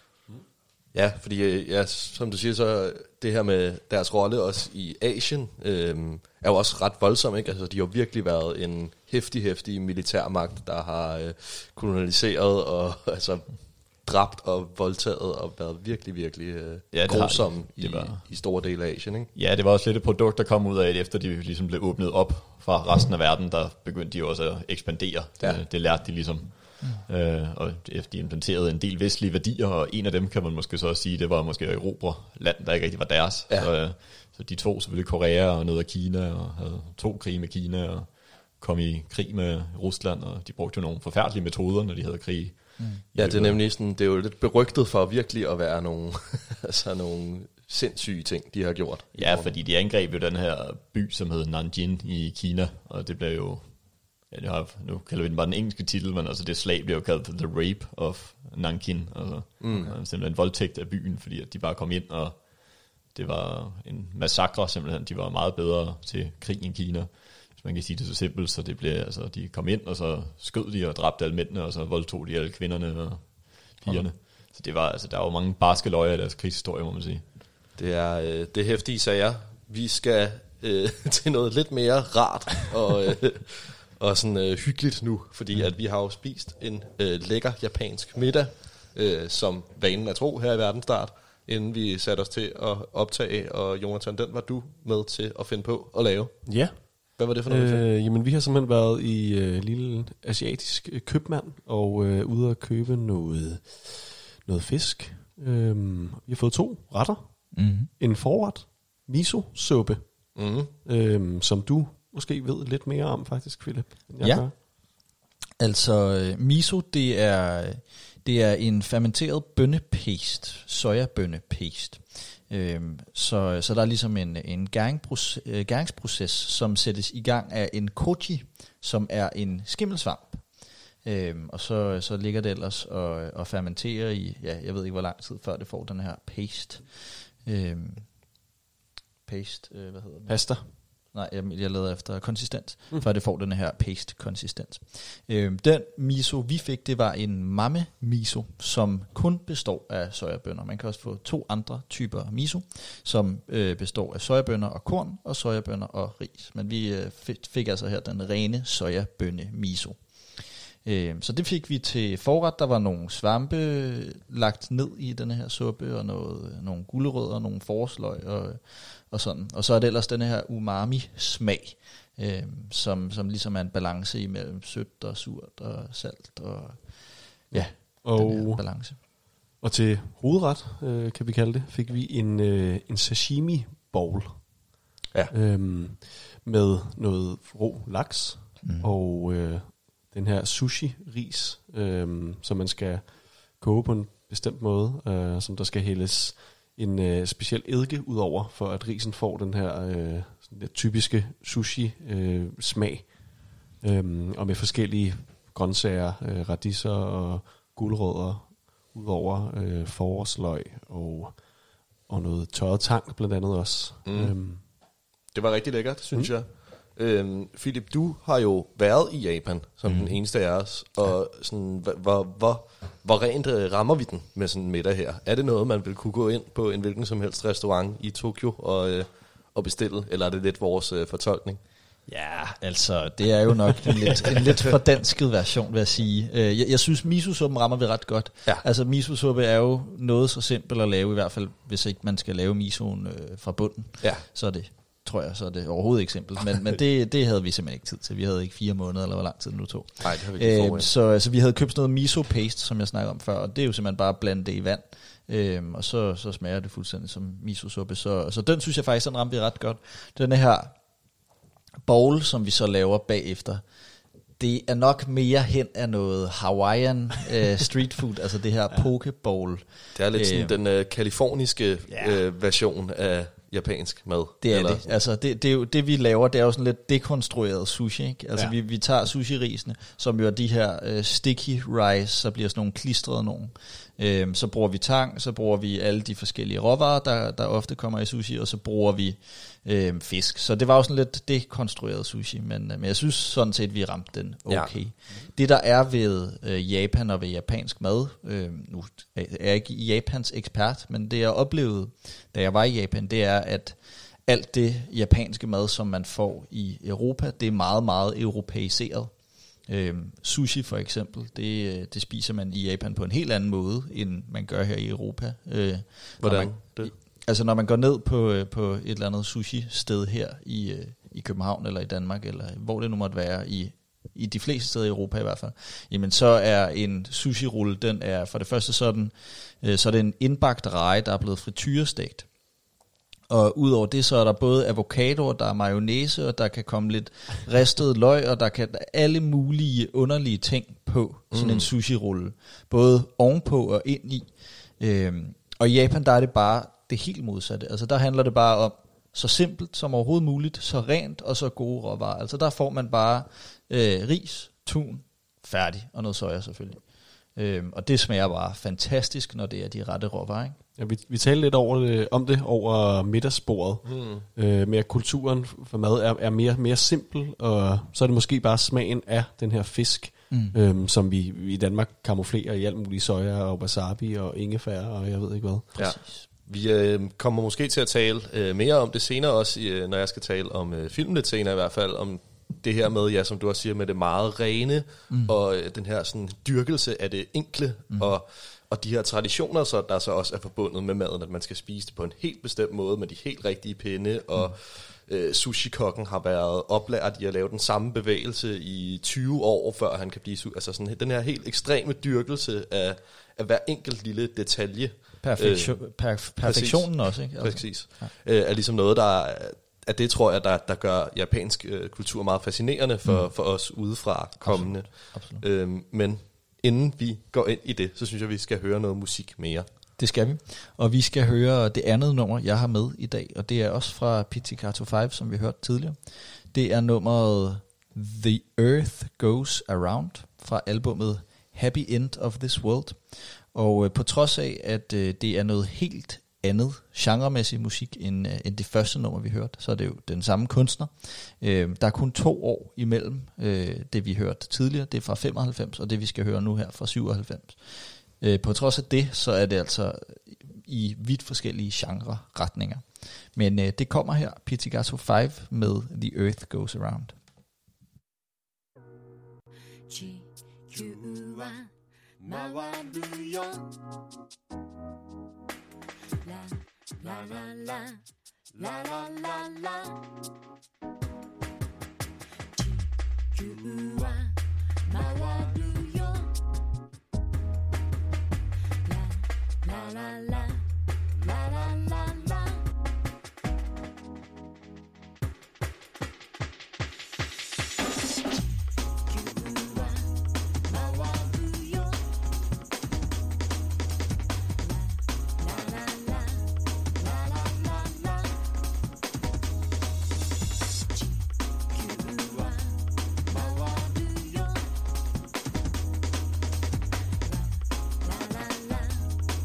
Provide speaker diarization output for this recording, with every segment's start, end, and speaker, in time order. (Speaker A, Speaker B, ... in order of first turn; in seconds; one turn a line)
Speaker A: 0.9-19.3
Speaker B: 16.9-18.4
Speaker B: 19.3-43.6
Speaker C: 42.8-43.0
Speaker A: 43.1-49.5
Speaker B: 49.1-77.2
Speaker A: 59.6-59.9
Speaker A: 73.8-74.1
Speaker A: 77.8-97.8
Speaker D: 96.5-114.5
Speaker C: 107.5-107.9
Speaker A: 110.3-110.7
Speaker C: 114.2-115.0
Speaker C: 115.6-138.3
Speaker C: 139.2-179.0
Speaker D: 140.3-140.7
Speaker D: 177.5-184.7
Speaker D: 185.3-214.6
Speaker C: 188.6-188.9
Speaker A: 214.0-231.6
Speaker B: 219.8-220.1
Speaker C: 232.1-260.8
Speaker A: 250.0-250.9
Speaker C: 261.8-263.6
Speaker C: 264.4-270.5
Speaker A: 269.9-274.8
Speaker C: 271.9-272.2
Speaker C: 274.4-332.3
Speaker A: 294.5-294.7
Speaker A: 316.2-316.9
Speaker C: 333.3-360.6
Speaker A: 341.3-341.7
Speaker D: 360.8-375.7
Speaker A: 363.9-364.2
Speaker C: 370.3-370.6
Speaker A: 375.7-419.7
Speaker C: 375.8-376.2
Speaker C: 385.1-385.3
Speaker C: 405.2-408.1
Speaker C: 413.1-413.3
Speaker C: 414.4-415.4
Speaker C: 420.0-457.2
Speaker E: 459.9-461.7
Speaker E: 462.2-463.6
Speaker E: 466.2-468.0
Speaker E: 468.6-470.0
Speaker E: 472.6-474.3
Speaker E: 474.9-476.3
Speaker E: 478.9-480.6
Speaker E: 481.2-482.5
Speaker E: 489.1-490.1
Speaker E: 490.6-492.0
Speaker E: 495.4-496.5
Speaker E: 497.3-498.1
Speaker E: 501.0-502.8
Speaker E: 503.3-504.6
Speaker E: 508.0-509.1